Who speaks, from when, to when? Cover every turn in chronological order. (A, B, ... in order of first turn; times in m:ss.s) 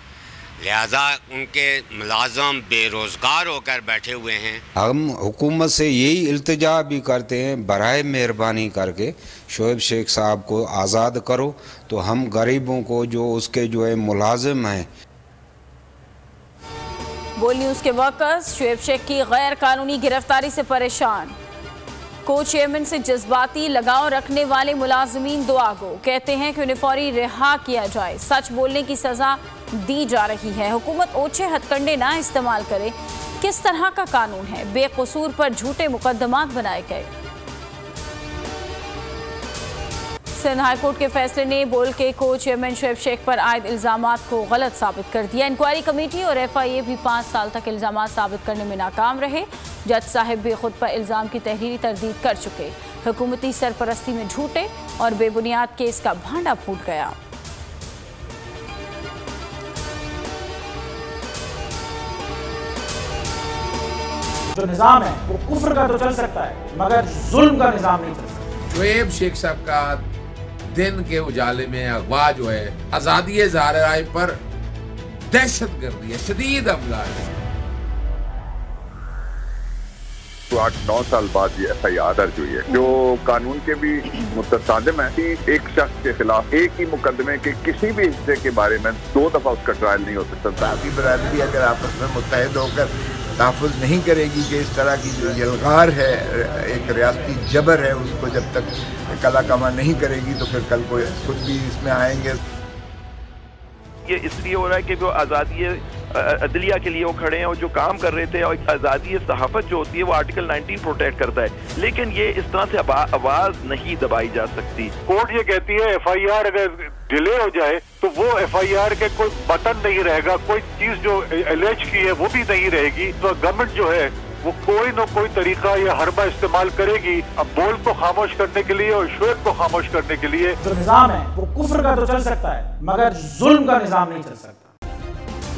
0:00.6-0:04.6 A
0:04.8-0:14.9 B
0:17.4-0:21.3 C
0:22.2-0:37.1 C
0:40.3-0:57.2 C
1:04.6-1:08.5 D
1:08.7-1:10.0 E
1:10.7-1:14.4 E
1:15.3-1:17.3 E
1:20.5-1:30.8 F
1:30.7-1:42.4 G
1:44.0-1:55.0 H
1:55.1-2:10.6 I
2:10.6-2:14.7 D